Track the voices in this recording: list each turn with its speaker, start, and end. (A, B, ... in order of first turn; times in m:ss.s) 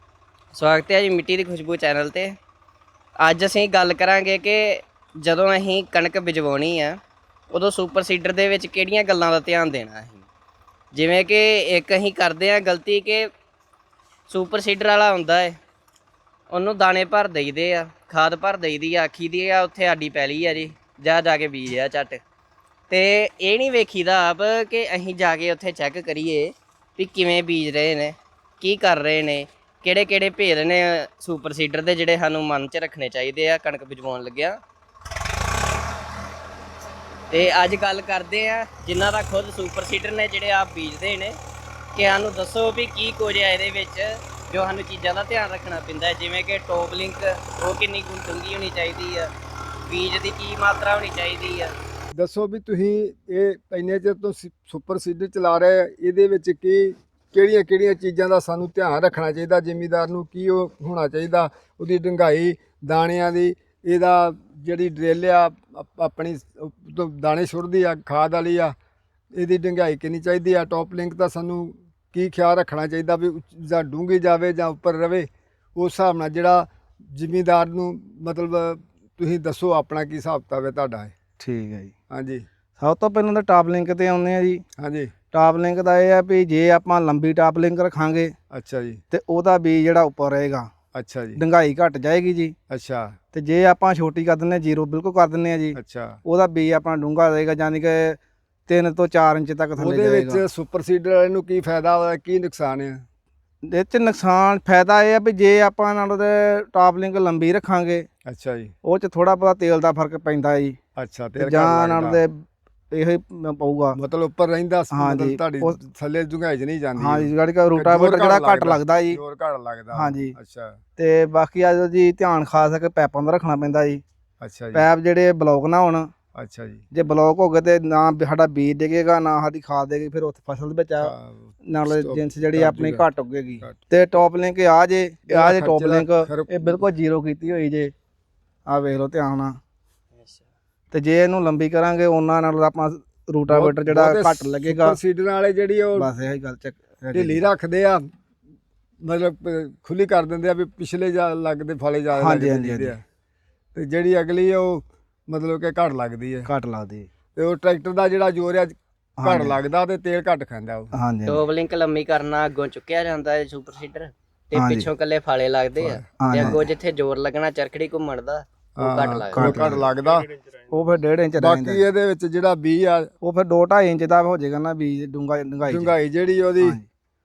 0:00.5-0:02.4 A
0:03.2-0:07.0 A
0:07.5-0:10.2 A
0:10.9-0:13.3 A
0:14.3-0:15.6 A
0:16.5-0:22.2 A
0:22.9-0:34.6 A
0:37.3-0:41.3 A
0:41.9-0:49.3 A
0:49.9-0:51.7 A
0:52.1-1:08.7 B
1:09.3-1:21.1 B
1:21.4-1:21.9 C
1:22.1-1:22.4 B
1:22.8-1:24.6 C
1:24.8-1:25.1 B
1:25.3-1:28.3 C
1:28.5-1:29.0 B
1:29.1-1:30.7 C
1:30.9-1:31.4 B
1:31.4-1:32.5 C
1:32.7-1:33.2 B
1:33.3-1:40.4 C
1:35.7-1:36.2 B
1:39.8-1:43.0 B
1:43.7-1:48.0 C
1:48.2-1:48.7 B
1:48.8-1:50.8 C
1:51.0-1:52.2 B
1:51.4-1:54.0 C
1:53.9-2:00.8 B
1:54.9-1:55.8 C
1:57.0-1:59.2 C
1:59.9-2:00.3 C
2:01.0-2:04.0 C
2:04.4-2:04.9 B
2:04.7-2:06.1 C
2:06.3-2:06.8 B
2:06.9-2:11.1 C
2:11.0-2:13.0 B
2:11.7-2:17.9 C
2:15.3-2:16.5 B
2:18.7-2:19.6 C
2:20.9-2:25.0 C
2:23.5-2:26.1 B
2:26.0-2:27.4 C
2:27.1-2:28.0 B
2:29.0-2:33.0 B
2:32.1-2:32.9 C
2:33.7-2:36.5 B
2:36.4-2:37.1 C
2:37.3-2:40.9 B
2:39.2-2:39.6 C
2:40.9-2:41.4 C
2:41.3-2:49.6 A
2:44.5-2:44.9 C
2:45.8-2:46.6 B
2:46.2-2:46.6 C
2:48.8-2:50.3 B
2:49.3-2:49.9 C
2:50.7-2:51.8 C
2:51.4-2:53.1 B
2:53.2-2:55.9 C
2:55.7-2:56.8 B
2:56.6-2:56.8 C